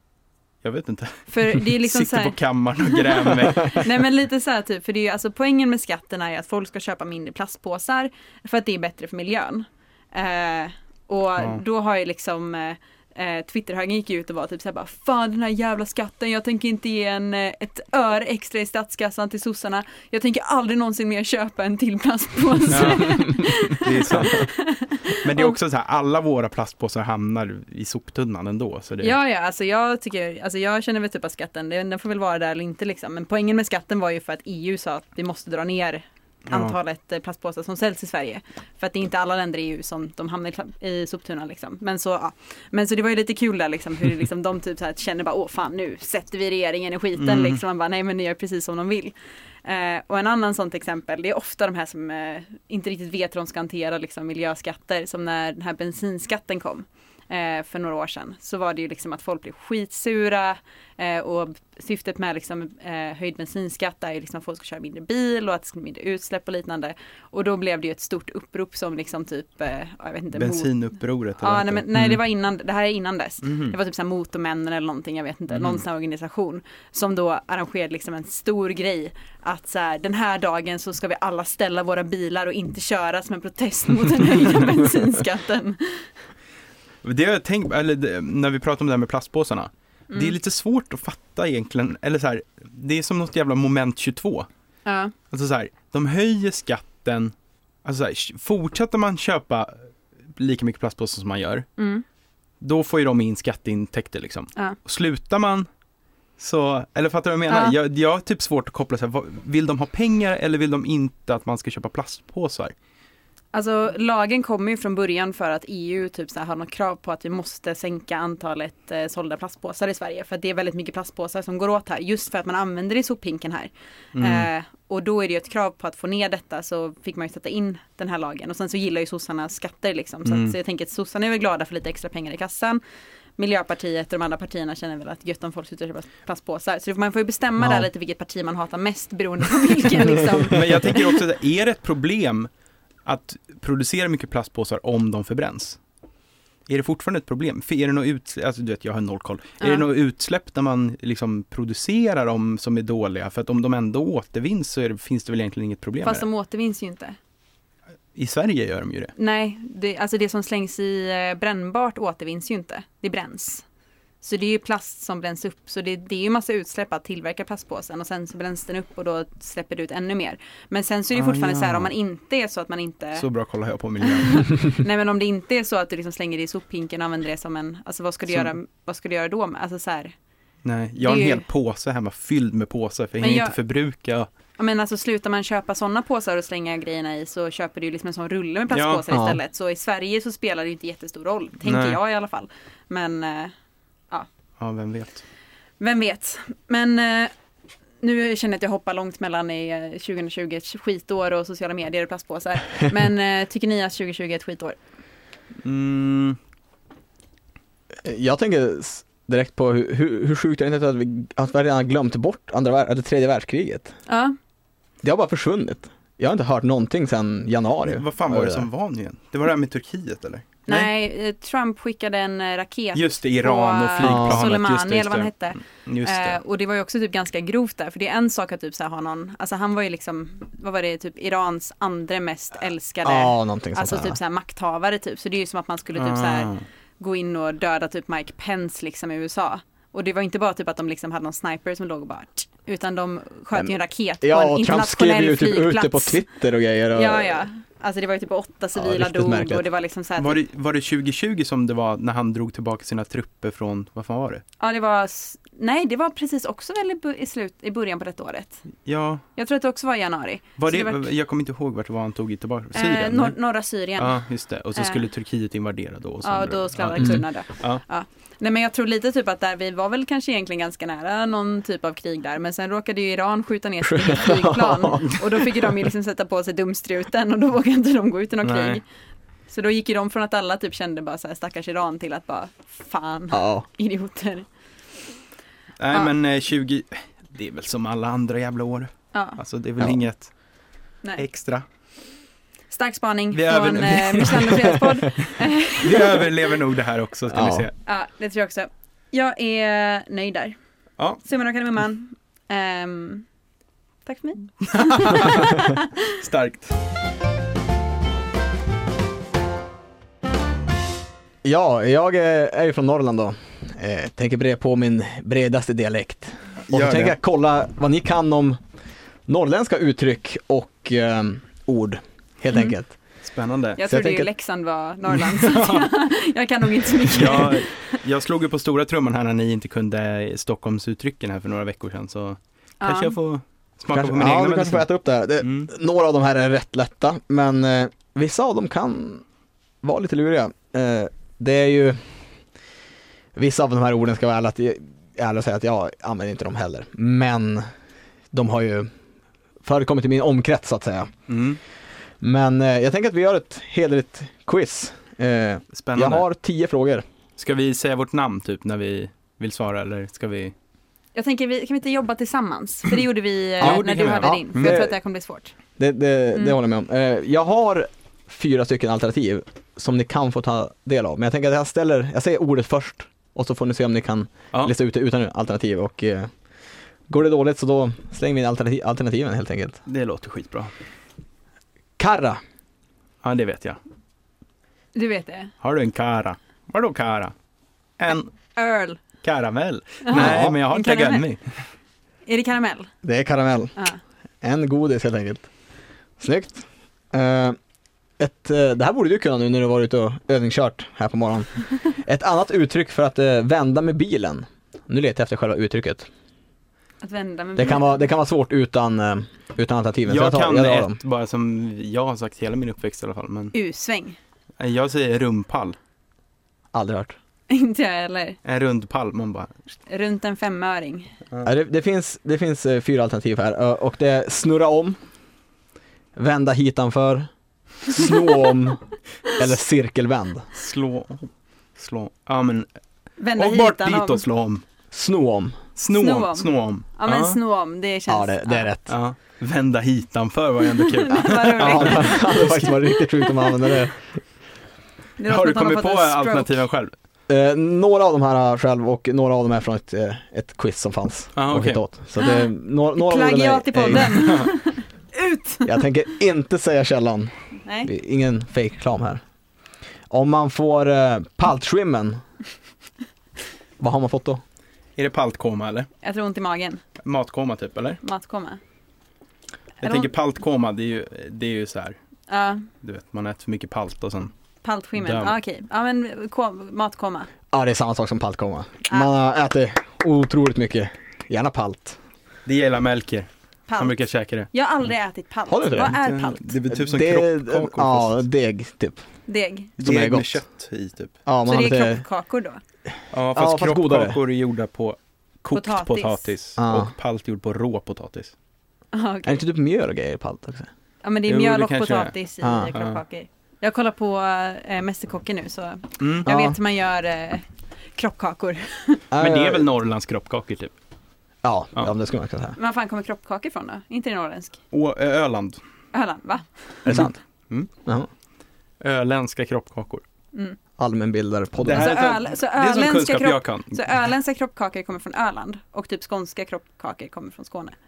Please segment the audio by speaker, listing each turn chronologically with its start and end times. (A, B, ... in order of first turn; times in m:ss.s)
0:00.6-0:03.9 A
0:01.3-0:25.6 B
0:22.7-0:24.5 A
0:25.2-0:29.1 A
0:29.0-1:10.8 B
0:36.5-0:36.8 A
0:47.2-0:47.6 A
1:10.4-1:12.2 A
1:11.4-1:26.1 B
1:13.4-1:13.8 A
1:15.5-1:15.8 A
1:27.0-1:34.5 A
1:30.1-1:30.4 B
1:34.8-1:35.1 B
1:35.3-1:39.7 A
1:40.4-1:41.7 A
1:41.8-1:42.0 B
1:42.6-1:45.7 A
1:46.4-1:52.7 A
1:47.5-1:47.8 B
1:53.5-2:12.8 B
2:04.1-2:04.5 A
2:10.3-2:10.6 A
2:13.4-2:21.2 B
2:17.6-2:17.9 C
2:20.5-2:22.5 A
2:23.0-2:25.8 A
2:26.7-2:36.3 A
2:36.0-2:37.2 B
2:38.2-2:39.1 A
2:39.2-2:43.6 B
2:44.2-2:53.3 B
2:51.1-2:51.9 A
2:53.2-2:54.5 A
2:54.0-3:00.1 B
2:58.3-2:58.5 A
3:00.6-3:04.3 A
3:01.0-3:01.4 B
3:03.2-3:03.6 B
3:04.6-3:13.5 B
3:08.7-3:09.0 A
3:09.1-3:09.4 C
3:11.6-3:12.0 A
3:14.6-3:15.2 A
3:15.8-3:17.3 B
3:18.0-3:24.8 B
3:25.6-3:26.4 A
3:28.0-3:33.9 C
3:34.1-3:34.4 B
3:35.0-3:38.7 C
3:37.8-3:40.9 A
3:40.7-4:06.2 B
3:43.0-3:46.4 A
3:44.0-3:44.4 C
3:53.0-3:54.2 C
3:56.0-3:56.6 A
4:03.6-4:07.5 C
4:06.9-4:10.4 B
4:08.8-4:09.6 C
4:10.2-4:14.4 A
4:14.6-4:18.6 B
4:18.8-4:19.2 A
4:19.4-4:21.1 B
4:20.6-4:23.4 A
4:22.8-4:24.2 B
4:24.0-4:27.8 A
4:24.8-4:25.0 B
4:26.2-4:38.8 B
4:33.8-4:35.7 C
4:38.4-4:38.8 A
4:39.5-4:44.5 B
4:43.3-4:43.6 C
4:45.8-4:50.3 A
4:49.1-4:49.4 B
4:51.2-4:51.6 A
4:52.7-4:56.3 B
4:53.3-4:54.7 A
4:55.8-4:57.7 A
4:57.3-4:57.7 C
4:57.8-5:00.6 B
5:01.2-5:03.3 B
5:04.1-5:05.9 B
5:04.7-5:06.8 A
5:11.4-5:18.6 C
5:16.7-5:17.2 A
5:19.3-5:23.0 C
5:23.2-5:23.8 A
5:23.8-5:27.9 B
5:23.8-5:24.3 C
5:25.2-5:25.9 A
5:27.1-5:34.9 A
5:32.8-5:33.2 B
5:33.9-5:39.2 C
5:35.4-5:35.7 A
5:39.8-5:42.1 C
5:43.4-5:47.7 C
5:48.3-5:48.9 C
5:49.6-5:51.1 C
5:51.3-5:51.6 A
5:52.2-5:57.0 C
5:55.8-5:56.2 A
5:57.4-6:00.5 A
6:01.2-6:05.5 B
6:03.6-6:04.8 A
6:03.6-6:05.0 C
6:05.8-6:16.3 C
6:17.1-6:19.8 C
6:19.9-6:20.7 A
6:22.0-6:22.4 C
6:23.2-6:23.8 A
6:25.0-6:25.5 B
6:25.6-6:27.3 A
6:28.0-6:28.3 A
6:28.6-6:29.0 B
6:29.2-6:31.6 A
6:30.0-6:31.2 B
6:30.1-6:30.6 C
6:32.3-6:32.9 B
6:33.0-6:33.8 C
6:34.4-6:35.5 C
6:36.2-6:37.6 C
6:38.2-6:46.1 C
6:47.0-6:48.0 B
6:47.6-6:51.0 C
6:50.1-6:53.5 A
6:53.5-6:54.2 B
6:54.6-6:55.8 A
6:56.7-6:57.2 C
6:57.5-6:58.4 B
6:58.4-6:59.5 A
6:59.9-7:01.1 B
7:01.4-7:05.0 C
7:06.2-7:07.3 C
7:07.9-7:08.8 C
7:09.3-7:10.5 C
7:10.6-7:12.7 A
7:13.2-7:14.2 B
7:13.4-7:14.6 A
7:14.9-7:15.6 C
7:15.8-7:17.4 A
7:15.9-7:18.7 B
7:18.1-7:19.0 C
7:18.9-7:22.5 A
7:20.9-7:23.7 B
7:21.6-7:24.1 C
7:25.2-7:26.6 B
7:25.3-7:26.9 A
7:27.3-7:34.3 C
7:31.4-7:31.8 A
7:32.2-7:35.8 B
7:34.0-7:34.5 A
7:35.6-7:37.3 C
7:37.6-7:37.9 B
7:37.8-7:39.2 C
7:40.1-7:42.2 C
7:43.8-7:44.4 C
7:45.0-7:45.9 A
7:46.0-7:46.8 B
7:47.0-7:48.0 A
7:48.0-7:48.6 B
7:49.8-7:52.0 A
7:49.8-7:50.1 B
7:52.3-7:52.7 B
7:52.8-7:54.3 A
7:54.6-7:57.3 B
7:55.0-7:55.4 A
7:57.5-8:02.0 C
8:02.5-8:04.5 A
8:03.7-8:06.6 B
8:05.5-8:06.0 C
8:05.9-8:08.2 A
8:06.7-8:09.0 C
8:09.3-8:09.8 B
8:09.8-8:10.4 C
8:09.8-8:11.2 A
8:11.3-8:12.0 C
8:11.5-8:12.6 B
8:13.1-8:18.3 A
8:13.3-8:14.2 C
8:15.5-8:16.3 B
8:16.6-8:16.9 C
8:18.9-8:19.4 B
8:19.2-8:20.7 C
8:21.0-8:27.4 B
8:21.3-8:22.1 A
8:22.4-8:22.7 C
8:22.7-8:23.0 A
8:26.0-8:26.3 A
8:26.3-8:26.6 C
8:28.0-8:29.0 B
8:29.1-8:29.7 C
8:29.2-8:30.7 A
8:31.4-8:32.6 C
8:32.6-8:34.6 B
8:34.7-8:35.6 A
8:35.9-8:36.9 B
8:36.9-8:37.2 C
8:36.9-8:37.7 A
8:38.8-8:40.0 A
8:40.8-8:42.0 C
8:41.6-8:43.9 A
8:41.7-8:47.8 B